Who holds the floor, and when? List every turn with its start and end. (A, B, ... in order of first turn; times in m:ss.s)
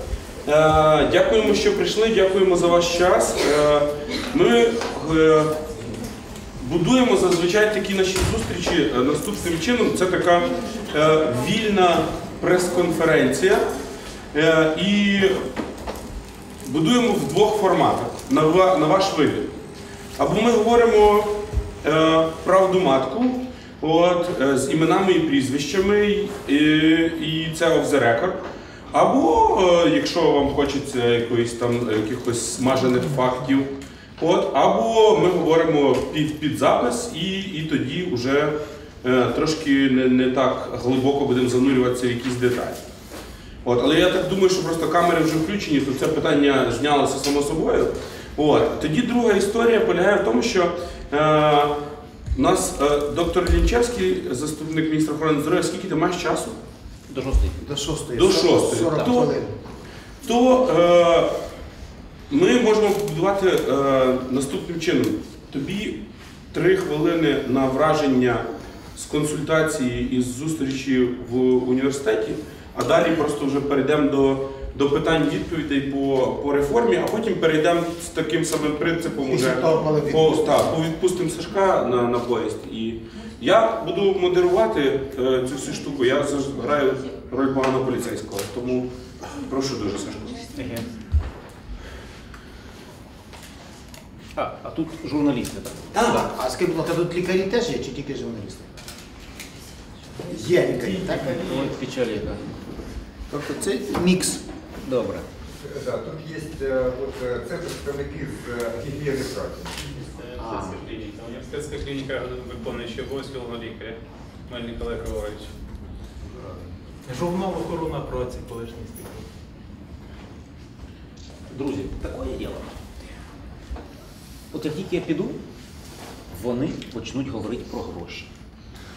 0:00.5-0:05.6 A
0:06.6-0:13.7 A
0:14.3-0:15.4 A
0:16.6-0:19.5 A
0:20.2-0:42.8 A
0:43.6-0:51.8 A
0:52.4-0:56.6 A
0:57.1-0:57.6 B
0:57.6-0:59.5 C
0:58.2-0:59.3 A
1:00.2-1:01.4 A
1:02.3-1:06.0 A
1:06.5-1:30.6 A
1:19.3-1:20.5 C
1:34.4-1:36.2 B
1:36.0-1:38.7 C
1:40.2-1:41.5 C
1:40.6-1:42.4 B
1:43.3-1:44.4 C
1:44.8-1:45.3 B
1:45.6-1:49.8 D
1:50.0-1:55.5 E
1:50.4-1:50.8 C
1:57.1-1:59.2 F
2:01.5-2:02.8 B
2:04.5-2:05.4 B
2:06.3-2:08.3 B